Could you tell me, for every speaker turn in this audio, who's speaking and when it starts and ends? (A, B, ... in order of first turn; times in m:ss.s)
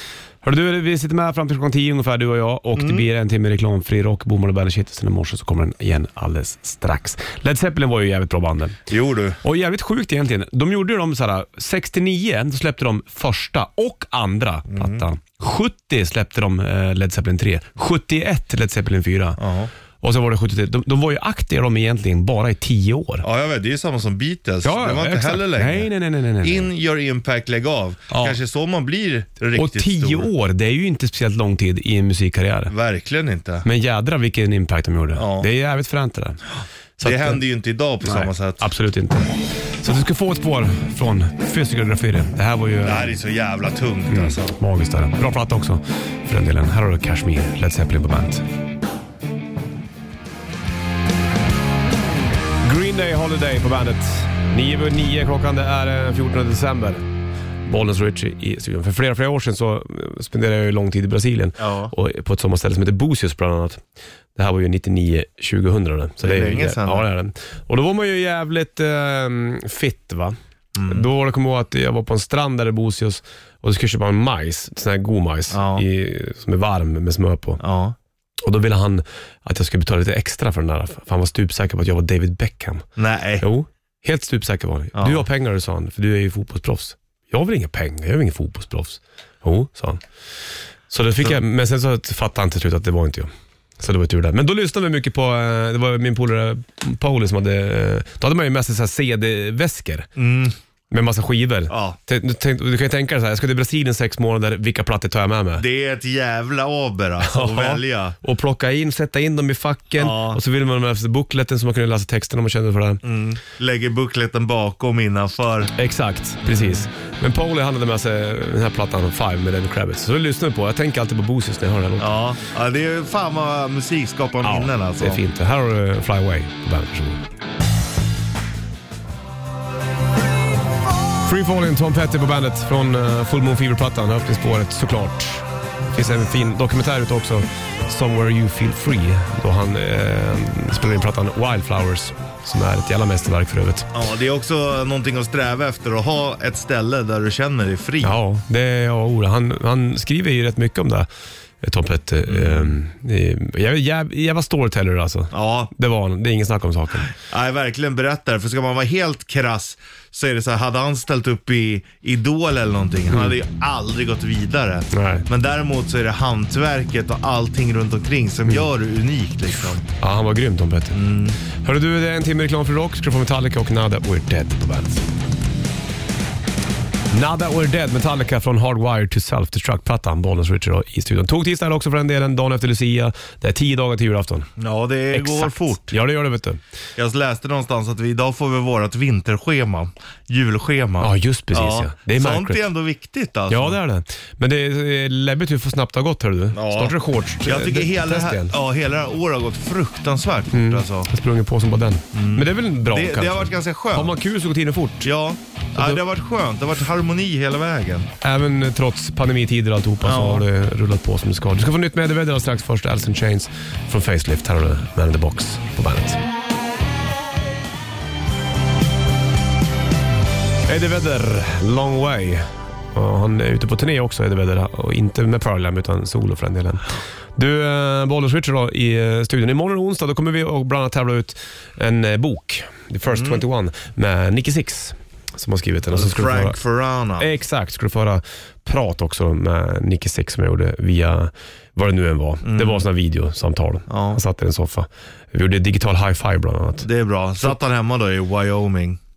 0:00.4-0:08.8 A
0:02.8-0:03.1 B
0:08.9-0:09.4 B
0:09.4-0:19.4 A
0:14.7-0:15.1 B
0:19.4-0:19.7 B
0:20.0-0:23.2 A
0:23.2-0:25.9 B
0:24.6-0:26.7 A
0:26.4-0:30.3 B
0:28.1-0:28.4 A
0:29.5-0:32.7 A
0:32.7-0:33.7 B
0:33.6-0:36.4 A
0:35.1-0:35.5 B
0:37.0-0:37.4 A
0:37.0-0:38.6 B
0:38.0-0:43.1 A
0:42.8-0:44.6 B
0:44.1-0:48.4 A
0:52.6-0:57.0 A
0:57.7-1:03.8 A
1:01.6-1:01.9 B
1:04.4-1:10.4 A
1:06.2-1:07.1 B
1:10.8-1:11.1 B
1:10.9-1:17.6 A
1:15.5-1:15.9 B
1:17.6-1:18.0 B
1:18.4-1:22.9 A
1:23.0-1:23.5 B
1:23.4-1:30.0 A
1:25.0-1:25.2 B
1:30.9-1:40.1 A
1:40.2-1:40.6 B
1:40.9-1:45.6 A
1:41.7-1:42.0 B
1:45.6-1:48.2 B
1:47.2-1:53.0 A
1:50.0-1:50.4 B
1:53.0-1:55.7 B
1:55.8-2:02.1 A
1:56.4-1:56.9 B
2:02.0-2:05.2 B
2:04.4-2:07.2 A
2:11.2-2:23.9 A
2:23.9-2:28.2 B
2:28.0-2:31.1 A
2:31.6-2:37.1 A
2:32.3-2:32.8 B
2:35.3-2:35.7 B
2:37.1-2:49.8 B
2:44.9-2:45.3 A
2:50.0-2:51.0 A
2:50.9-2:51.4 B
2:51.5-2:55.0 A
2:57.1-3:04.5 A
3:04.6-3:06.0 B
3:05.1-3:06.6 A
3:07.0-3:13.8 B
3:11.0-3:12.7 A
3:13.5-3:18.5 A
3:16.5-3:21.1 B
3:20.5-3:25.1 A
3:22.1-3:24.1 B
3:25.0-3:28.1 B
3:28.2-3:36.2 A
3:30.0-3:30.5 B
3:40.7-3:56.6 A
3:53.1-3:53.4 B
3:55.9-3:57.3 B
3:57.2-4:06.9 A
4:02.4-4:02.8 B
4:03.9-4:04.2 B
4:06.8-4:09.0 B